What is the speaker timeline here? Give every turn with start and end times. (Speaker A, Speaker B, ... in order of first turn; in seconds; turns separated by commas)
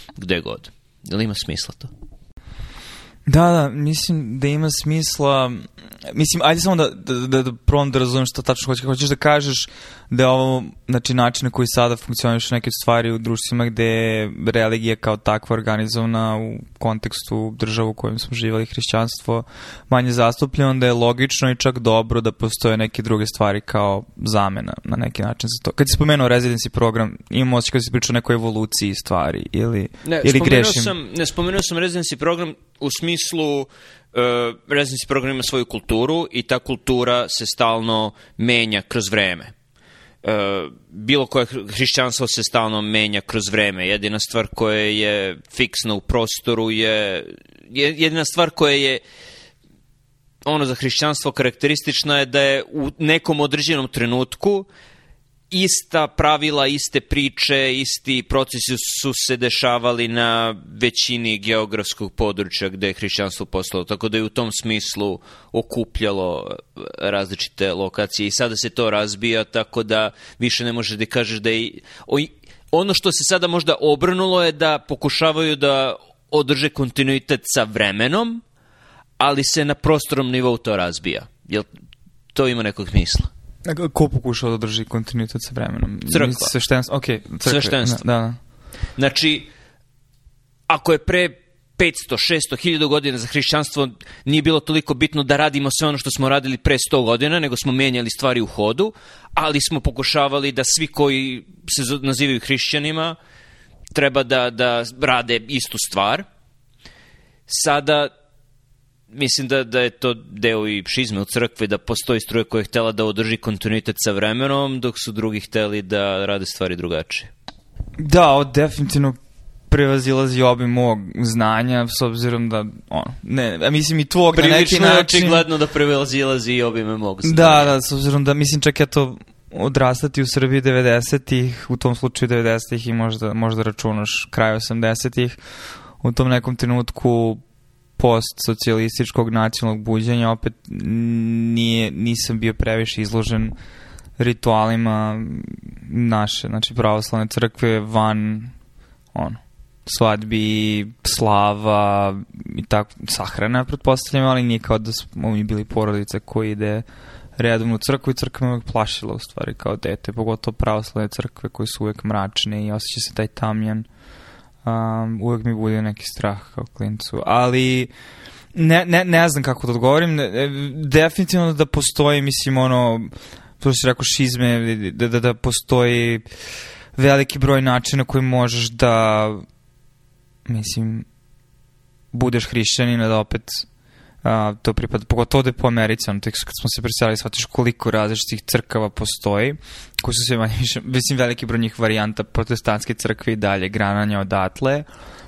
Speaker A: 0.2-1.9, Speaker B: 3.3-30.9, Speaker A: 30.0-39.5, Speaker A: 40.2-49.0, Speaker A: 50.5-54.7, Speaker A: 55.5-78.4, Speaker A: 79.2-81.7, Speaker A: 82.3-83.3, Speaker B: 83.7-88.4, Speaker A: 86.1-86.5, Speaker A: 87.4-88.0, Speaker A: 89.0-89.5, Speaker A: 90.7-103.2, Speaker A: 103.9-106.2, Speaker A: 107.5-108.1, Speaker A: 109.1-117.3, Speaker B: 118.0-119.2, Speaker B: 119.7-125.5, Speaker A: 124.3-127.8, Speaker B: 127.2-135.4, Speaker B: 136.0-137.4, Speaker B: 138.0-143.5, Speaker B: 144.2-148.5, Speaker B: 149.1-156.8, Speaker B: 157.4-163.9, Speaker B: 164.6-167.9, Speaker B: 168.5-176.2, Speaker B: 177.0-179.4, Speaker B: 180.5-181.1, Speaker B: 182.1-183.7, Speaker B: 184.2-194.9